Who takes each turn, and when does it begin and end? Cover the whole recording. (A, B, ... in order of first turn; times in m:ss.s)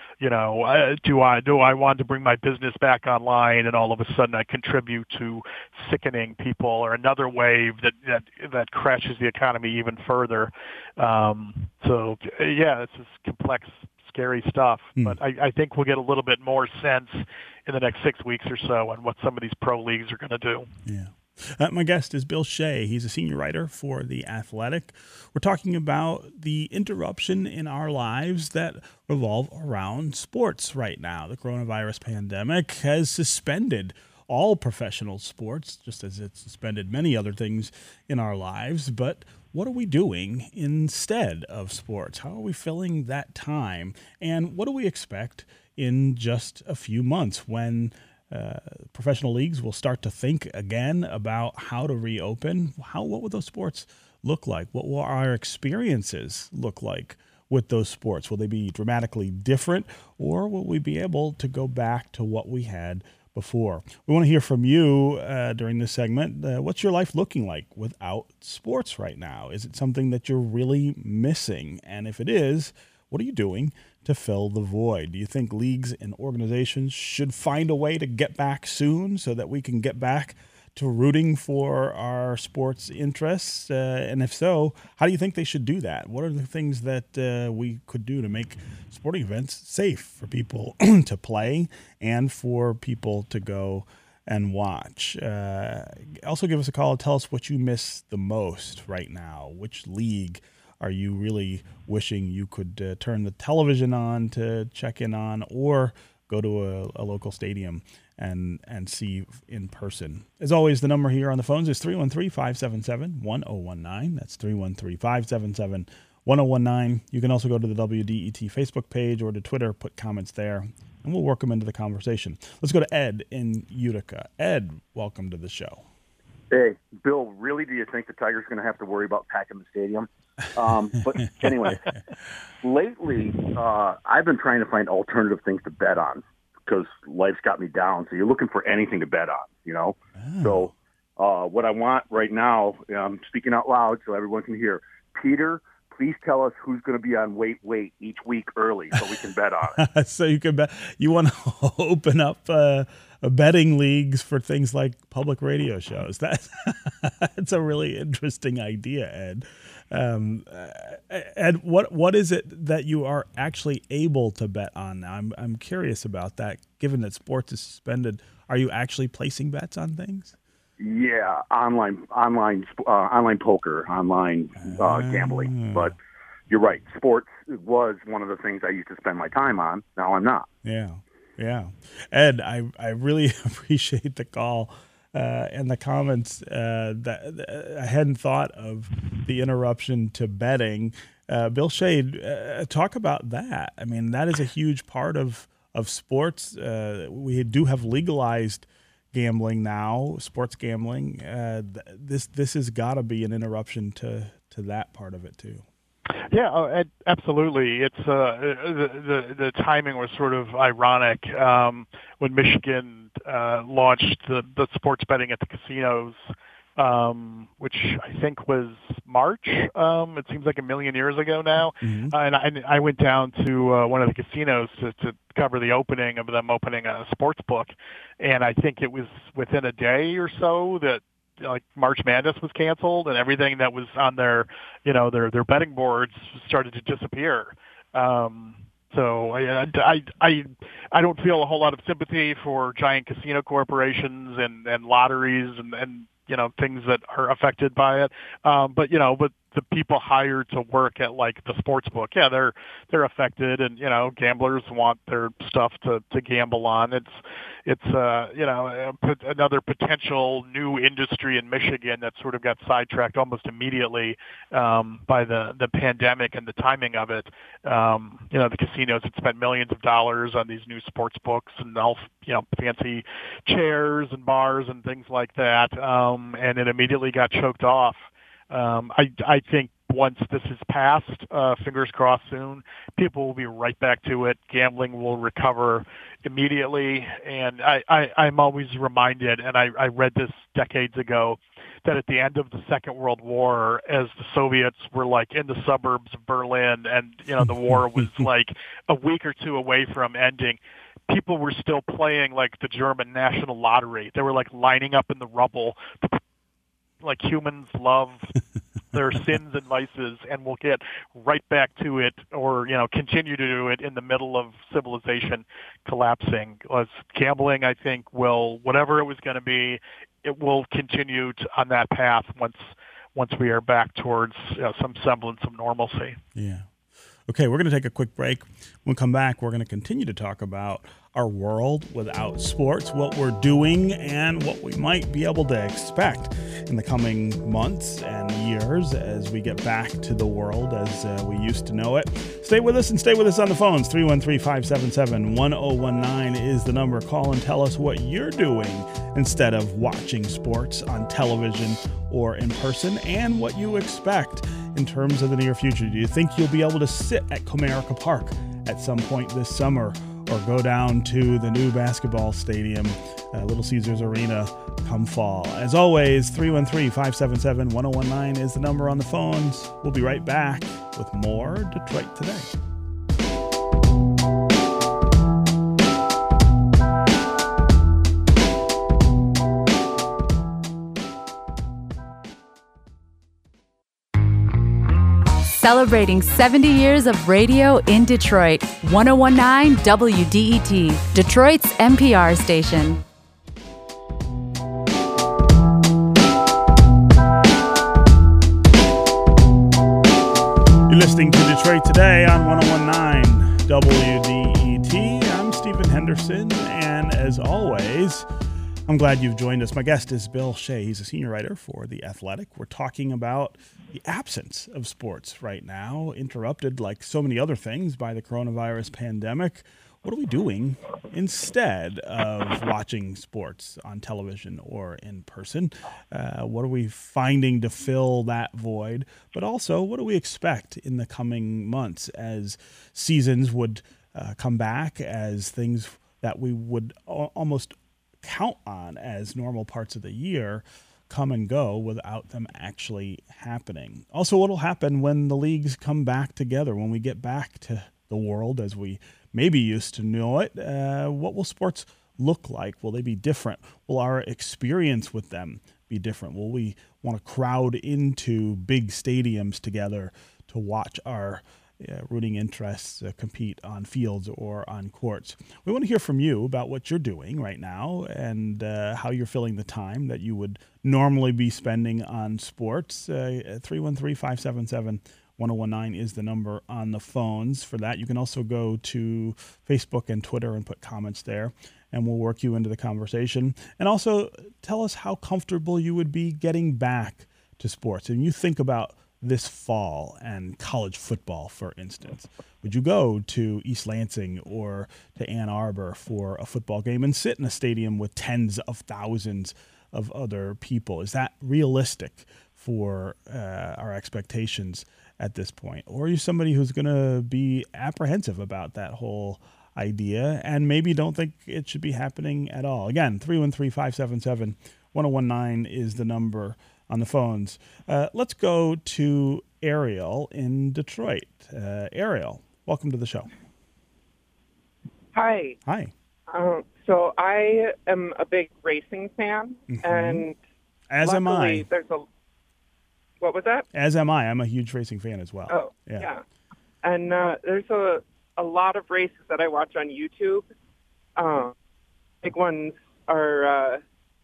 0:00.2-0:20.7 A
0:20.8-2:05.8 B
2:06.5-2:11.9 C
2:11.3-2:12.0 B
2:12.6-2:29.8 C
2:20.2-2:20.7 B
2:29.7-2:50.4 B
2:50.8-2:55.9 C
2:54.6-2:55.9 B
2:56.5-3:00.5 C
3:00.6-3:25.6 B
3:26.3-3:36.2 A
3:36.8-5:06.2 A
3:41.8-3:42.1 B
5:07.0-5:08.3 A
5:08.9-5:26.2 A
5:26.3-5:26.7 B
5:27.3-6:12.5 B
6:25.4-6:33.0 D
6:40.9-6:48.3 B
6:48.9-8:43.3 B
8:45.1-8:45.6 E
8:45.6-8:45.9 B
8:46.3-8:50.4 E
8:49.7-8:50.2 B
8:50.9-8:51.7 B
8:51.0-8:52.0 E
8:53.2-8:53.6 E
8:53.7-8:56.1 B
8:55.5-8:56.2 E
8:56.8-9:00.5 E
9:01.2-9:01.5 E
9:02.2-9:03.8 E